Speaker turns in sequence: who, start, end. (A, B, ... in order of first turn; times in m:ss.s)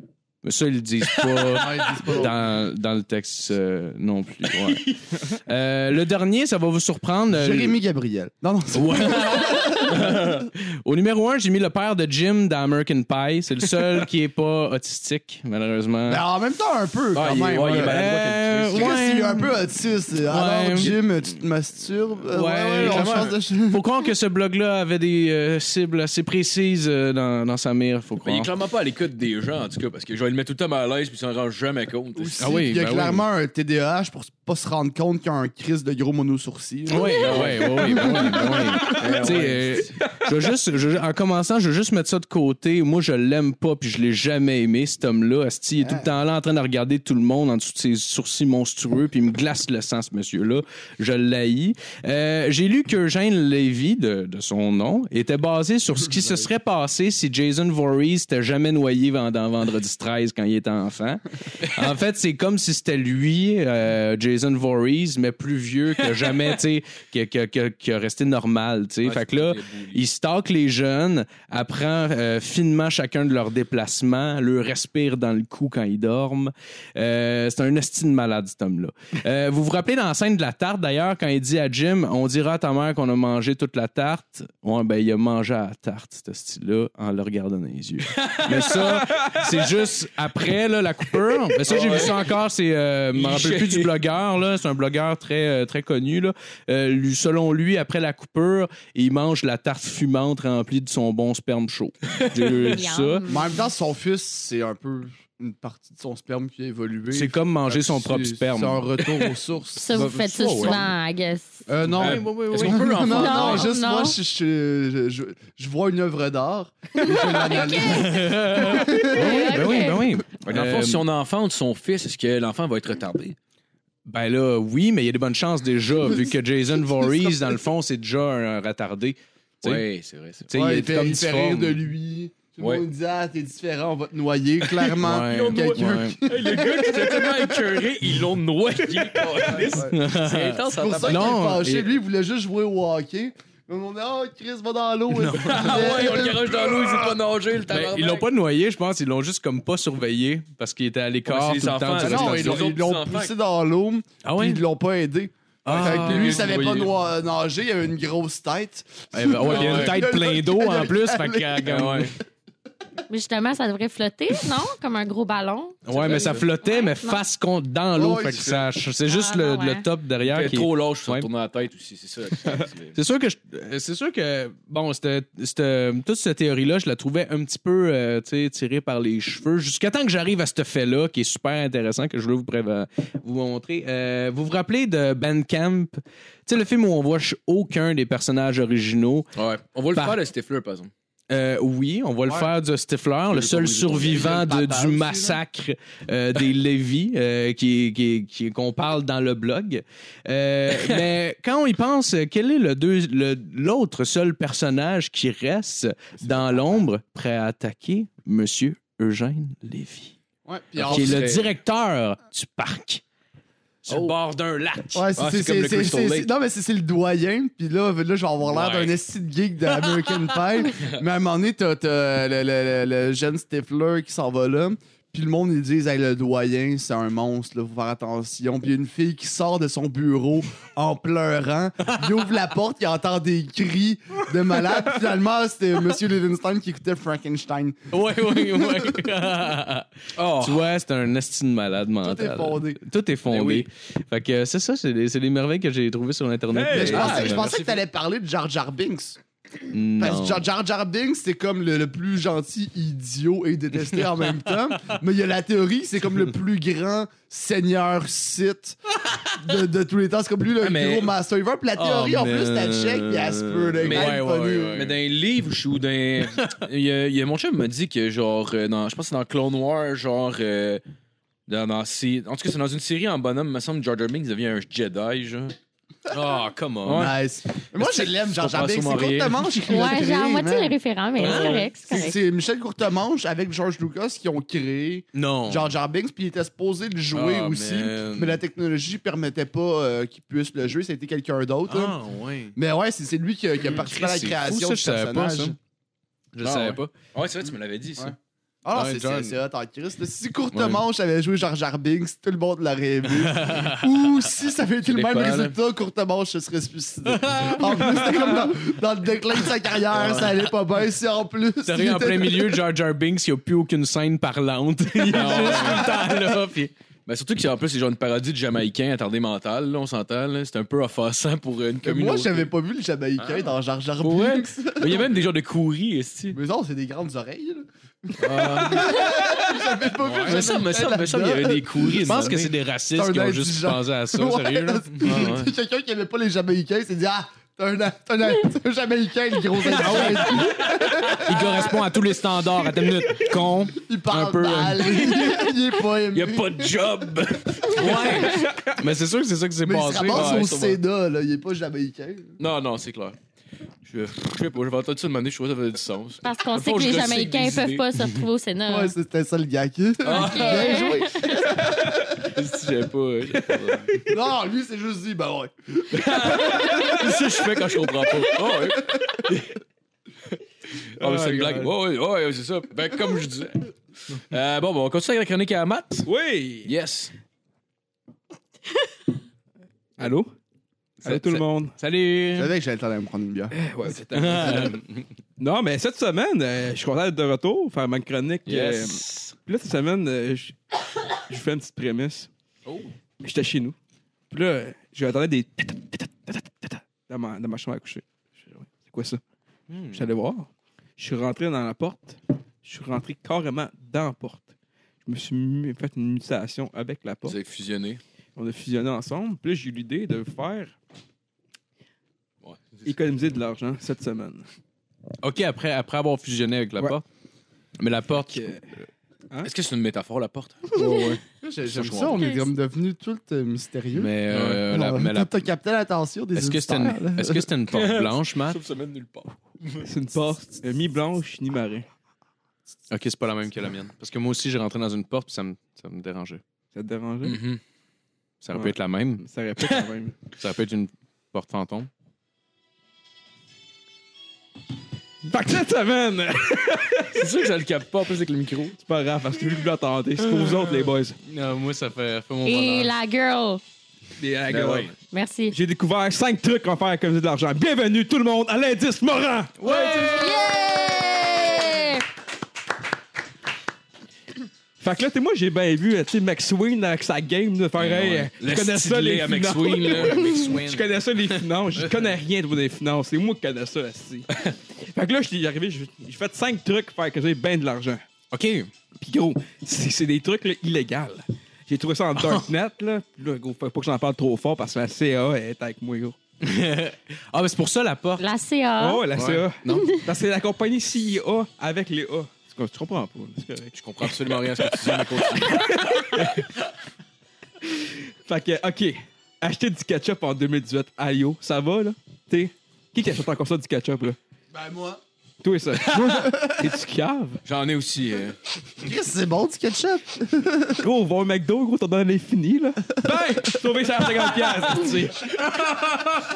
0:00.4-0:07.8 A
0:01.5-0:02.4 B
0:07.3-0:10.2 B
0:08.7-0:16.2 A
0:16.1-0:18.1 B
0:17.1-0:19.0 C
0:17.7-0:19.5 A
0:18.7-0:23.8 B
0:20.3-0:20.9 A
0:22.3-0:28.5 A
0:22.8-0:23.4 C
0:28.2-0:32.5 C
0:32.2-0:38.6 B
0:32.4-0:33.2 A
0:36.9-1:43.3 A
0:36.9-0:40.0 C
0:38.0-0:39.4 D
0:45.8-0:46.1 B
1:09.0-1:10.0 C
1:28.1-1:28.8 C
1:31.7-1:32.3 C
1:33.2-1:33.9 C
1:42.1-1:42.6 C
1:42.6-1:43.6 E
1:43.3-1:50.9 B
1:47.1-1:49.2 A
1:49.8-1:51.7 E
1:51.7-1:59.4 B
1:51.8-1:53.0 A
1:52.0-1:53.7 C
1:53.1-1:54.2 E
1:57.0-2:00.1 E
1:57.8-2:01.0 A
2:00.4-2:03.4 C
2:04.1-2:09.9 A
2:06.8-2:07.6 B
2:09.6-2:10.5 C
2:10.5-2:11.8 A
2:10.5-2:17.6 B
2:12.6-2:12.9 C
2:14.6-2:21.4 C
2:15.0-2:16.2 A
2:19.1-2:19.6 D
2:19.5-2:20.0 B
2:19.8-2:21.9 A
2:20.7-2:27.2 B
2:25.1-2:26.0 A
2:25.4-2:28.3 C
2:27.7-2:32.6 A
2:31.3-2:33.3 C
2:32.0-2:41.7 B
2:34.2-2:34.6 A
2:35.6-2:36.6 A
2:35.7-2:36.9 C
2:39.1-2:42.2 A
2:39.4-2:40.0 C
2:41.7-2:42.2 C
2:43.1-2:47.2 E
2:45.9-2:51.3 A
2:45.9-2:46.5 C
2:48.0-2:48.6 B
2:49.1-2:49.8 E
2:50.2-2:53.0 C
2:52.9-3:09.3 A
3:09.4-3:10.9 C
3:11.3-3:30.2 A
3:13.3-3:15.4 B
3:26.2-3:26.7 B
3:30.5-3:31.4 B
3:30.8-3:31.5 C
3:30.8-3:33.0 A
3:33.8-3:35.1 A
3:33.9-3:34.2 C
3:34.9-3:57.8 B
3:35.2-3:36.3 C
3:38.6-3:38.9 C
3:38.6-3:38.9 A
3:57.9-4:07.5 A
4:00.2-4:00.7 C
4:02.0-4:02.8 B
4:03.3-4:03.7 C
4:06.5-4:07.3 D
4:06.7-4:09.2 B
4:06.8-4:07.8 C
4:09.7-4:10.4 A
4:10.0-4:18.8 B
4:19.4-4:24.8 B
4:20.6-4:21.1 C
4:21.8-4:25.0 A
4:23.7-4:24.2 C
4:24.7-4:30.8 C
4:31.5-4:35.6 C
4:36.1-4:37.1 A
4:36.8-4:37.2 C
4:36.9-4:52.0 B
4:37.8-4:39.8 C
4:39.7-4:42.2 E
4:41.2-4:41.7 C
4:41.2-4:41.6 A
4:45.1-4:45.7 A
4:47.1-4:48.4 A
4:51.7-4:52.6 A
4:52.6-4:55.6 B
4:53.7-4:55.6 A
4:56.3-4:56.9 A
4:56.4-4:58.2 C
4:58.0-5:12.6 B
4:58.7-4:59.4 A
5:00.5-5:00.8 A
5:03.2-5:03.8 A
5:04.9-5:05.6 C
5:07.1-5:08.1 A
5:10.0-5:10.3 C
5:11.6-5:16.7 A
5:15.1-5:16.0 C
5:15.2-5:15.8 B
5:17.1-5:22.5 C
5:21.8-5:25.2 B
5:24.0-5:26.4 C
5:26.3-5:32.1 B
5:28.2-5:32.5 C
5:30.0-5:30.5 A
5:32.0-5:35.2 A
5:32.9-5:41.7 B
5:35.0-5:35.5 C
5:39.8-5:40.4 A
5:39.9-5:40.5 C
5:41.2-5:45.2 A
5:43.7-5:46.8 B
5:46.1-5:48.5 C
5:47.8-5:48.2 A
5:48.0-5:48.5 E
5:48.7-5:50.6 A
5:49.6-5:52.4 B
5:50.0-5:50.8 C
5:52.4-5:53.2 C
5:53.8-5:57.9 C
5:56.2-5:58.9 E
5:58.7-6:02.0 B
6:00.0-6:01.0 C
6:00.1-6:01.4 E
6:02.2-6:04.0 C
6:03.4-6:04.1 D
6:04.1-6:07.0 B
6:05.9-6:09.5 C
6:06.7-6:07.0 D
6:08.6-6:09.2 B
6:11.0-6:16.1 C
6:11.0-6:11.7 D
6:16.1-6:16.7 D
6:16.6-6:17.1 C
6:20.0-6:20.3 D
6:21.0-6:22.5 A
6:21.0-6:21.7 D
6:22.4-6:23.6 B
6:23.5-6:24.8 D
6:24.1-6:25.0 A
6:25.4-6:30.6 D
6:28.5-6:29.3 C
6:31.3-6:32.3 D
6:33.2-6:33.8 D
6:34.3-6:39.2 D
6:39.7-6:40.1 A
6:39.9-6:44.5 D
6:45.0-6:47.4 D
6:47.2-6:48.0 C
6:48.4-6:50.8 D
6:52.4-6:52.9 C
6:52.8-6:54.5 D
6:55.2-6:57.0 A
6:57.8-6:58.6 A
6:58.3-6:58.6 D
6:59.4-7:01.2 C
7:01.4-7:07.5 B
7:01.7-7:02.3 C
7:02.2-7:02.4 E
7:03.9-7:05.5 A
7:04.3-7:04.6 C
7:06.4-7:08.6 A
7:07.7-7:09.9 C
7:09.8-7:11.9 D
7:12.9-7:16.4 A
7:16.7-7:17.4 D
7:17.2-7:17.6 C
7:18.4-7:19.2 A
7:18.5-7:20.2 D
7:20.3-7:21.9 A
7:25.2-7:27.2 D
7:27.1-7:28.8 C
7:28.8-7:31.2 D
7:31.2-7:32.9 A
7:32.4-7:33.6 E
7:34.2-7:35.0 D
7:34.5-7:34.9 C
7:35.1-7:35.6 E
7:35.5-7:39.7 D
7:39.6-7:40.6 A
7:39.7-7:42.1 E
7:44.8-7:58.0 D
7:47.8-7:50.3 C
7:50.1-7:50.9 A
7:50.2-7:50.5 E
7:58.3-7:58.7 A
7:59.0-8:06.2 D
8:02.2-8:02.4 A
8:06.4-8:08.2 A
8:08.2-8:09.1 E
8:08.8-8:16.4 D
8:09.1-8:09.9 A
8:09.7-8:10.1 E
8:13.8-8:15.1 A
8:14.0-8:15.7 C
8:17.6-8:24.2 D
8:24.5-8:25.0 B
8:25.4-8:27.4 D
8:26.2-8:26.7 B
8:27.4-8:28.4 C
8:28.8-8:30.8 B
8:30.8-8:35.3 D
8:33.0-8:33.6 B
8:35.8-8:36.1 C